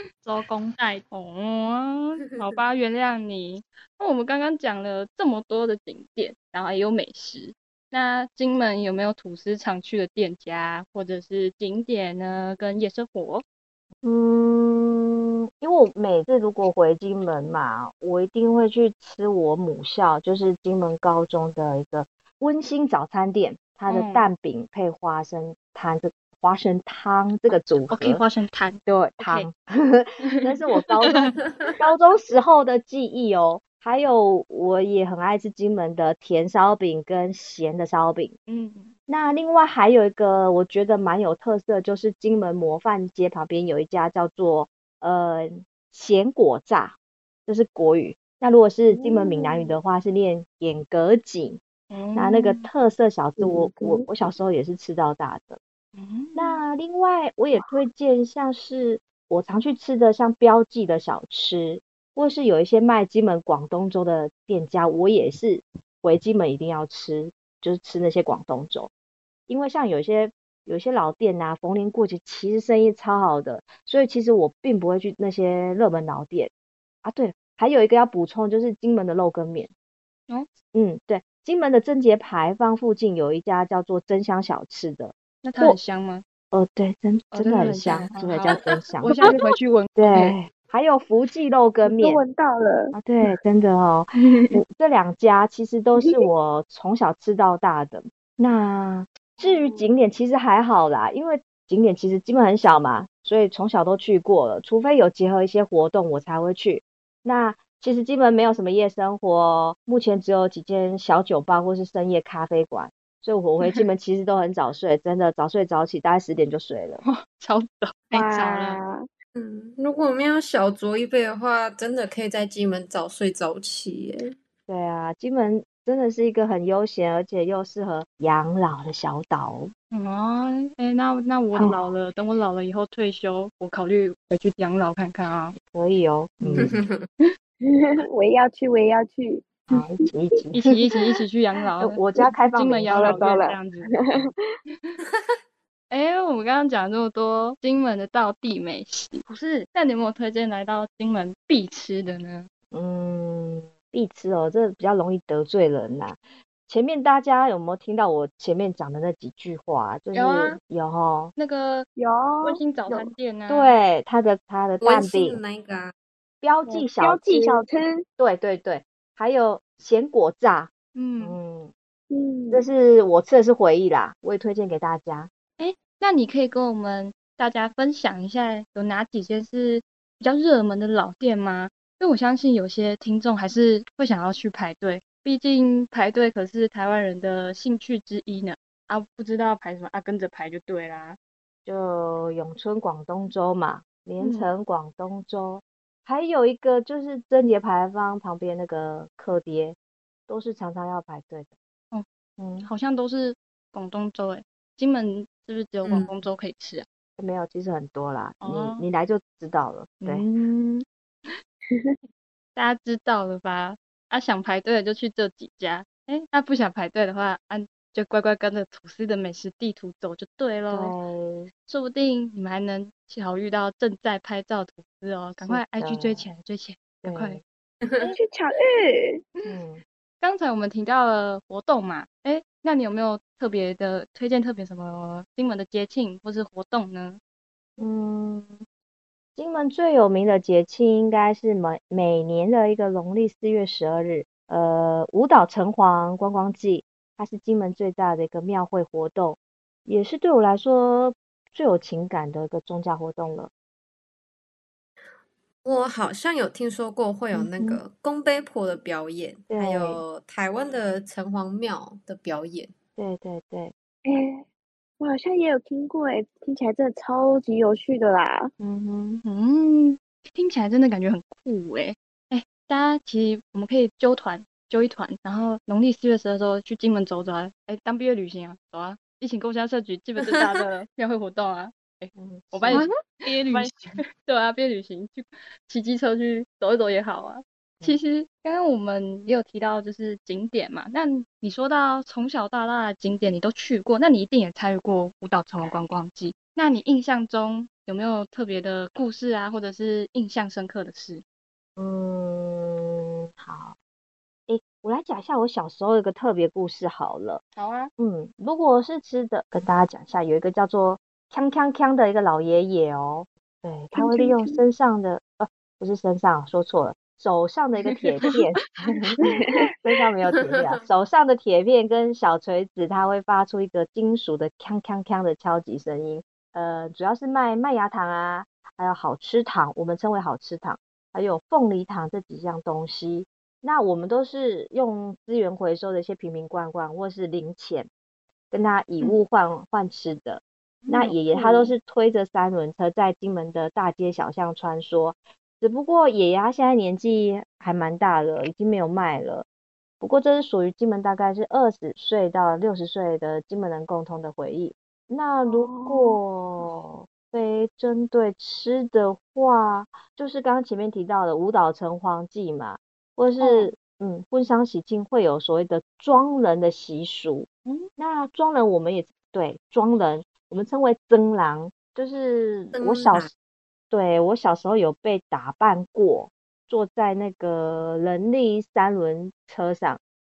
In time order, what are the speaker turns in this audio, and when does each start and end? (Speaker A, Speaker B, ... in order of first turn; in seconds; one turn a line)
Speaker A: 0.2-1.0
Speaker B: 1.1-13.4
Speaker C: 14.0-28.2
Speaker B: 23.9-24.3
Speaker B: 27.9-29.5
Speaker C: 28.9-38.4
Speaker B: 31.0-31.3
Speaker B: 38.5-38.9
Speaker C: 39.1-51.6
Speaker D: 48.9-49.8
Speaker B: 51.9-52.7
Speaker C: 52.1-55.6
Speaker D: 53.4-54.1
Speaker B: 55.9-56.6
Speaker C: 56.3-68.9
Speaker C: 69.5-76.5
Speaker C: 77.0-79.7
Speaker C: 80.7-85.8
Speaker B: 85.4-86.2
Speaker C: 86.5-89.3
Speaker B: 87.3-90.4
Speaker C: 90.0-92.2
Speaker D: 91.9-92.9
Speaker C: 92.9-117.0
Speaker D: 99.4-99.9
Speaker B: 117.0-118.2
Speaker A: 118.1-118.8
Speaker D: 118.1-119.0
Speaker E: 119.3-124.3
Speaker C: 124.7-129.7
Speaker B: 129.9-135.6
Speaker C: 131.5-131.8
Speaker C: 135.7-136.7
Speaker E: 136.5-137.1
Speaker D: 137.7-139.8
Speaker C: 139.7-140.7
Speaker B: 140.5-144.3
Speaker C: 141.8-143.3
Speaker D: 142.9-144.3
Speaker B: 145.9-152.5
Speaker C: 152.7-161.3
Speaker B: 160.1-160.6
Speaker B: 161.4-161.9
Speaker D: 162.0-163.1
Speaker B: 162.4-163.7
Speaker C: 163.5-165.4
Speaker E: 164.8-165.9
Speaker C: 166.4-167.6
Speaker D: 166.7-168.0
Speaker C: 168.2-171.7
Speaker B: 170.9-171.4
Speaker D: 172.1-172.6
Speaker C: 172.5-175.3
Speaker B: 175.6-191.2
Speaker C: 191.7-199.8
Speaker B: 194.2-194.5
Speaker C: 200.3-201.5
Speaker C: 202.4-202.7
Speaker B: 202.6-206.9
Speaker E: 205.8-206.1
Speaker C: 207.2-210.2
Speaker B: 208.4-208.8
Speaker B: 210.0-211.3
Speaker B: 212.5-220.9
Speaker C: 220.7-221.5
Speaker B: 221.7-227.4
Speaker C: 225.4-226.3
Speaker C: 227.0-227.4
Speaker D: 228.0-229.2
Speaker C: 229.4-229.8
Speaker B: 230.2-237.2
Speaker C: 237.8-238.6
Speaker C: 239.4-253.5
Speaker E: 255.6-262.7
Speaker C: 257.3-257.8
Speaker C: 259.5-260.0
Speaker C: 263.0-263.7
Speaker D: 264.1-264.4
Speaker D: 265.0-268.5
Speaker C: 268.6-269.2
Speaker B: 269.2-301.2
Speaker C: 282.1-282.9
Speaker A: 282.7-284.0
Speaker C: 301.8-303.8
Speaker C: 304.5-307.4
Speaker B: 307.6-307.9
Speaker C: 308.0-319.2
Speaker D: 313.9-314.6
Speaker D: 319.2-319.7
Speaker C: 319.8-337.9
Speaker E: 320.4-320.8
Speaker C: 338.5-349.5
Speaker B: 340.8-341.1
Speaker D: 341.3-341.7
Speaker C: 350.0-373.3
Speaker D: 355.5-356.2
Speaker D: 363.4-363.7
Speaker E: 372.8-373.3
Speaker C: 373.9-380.0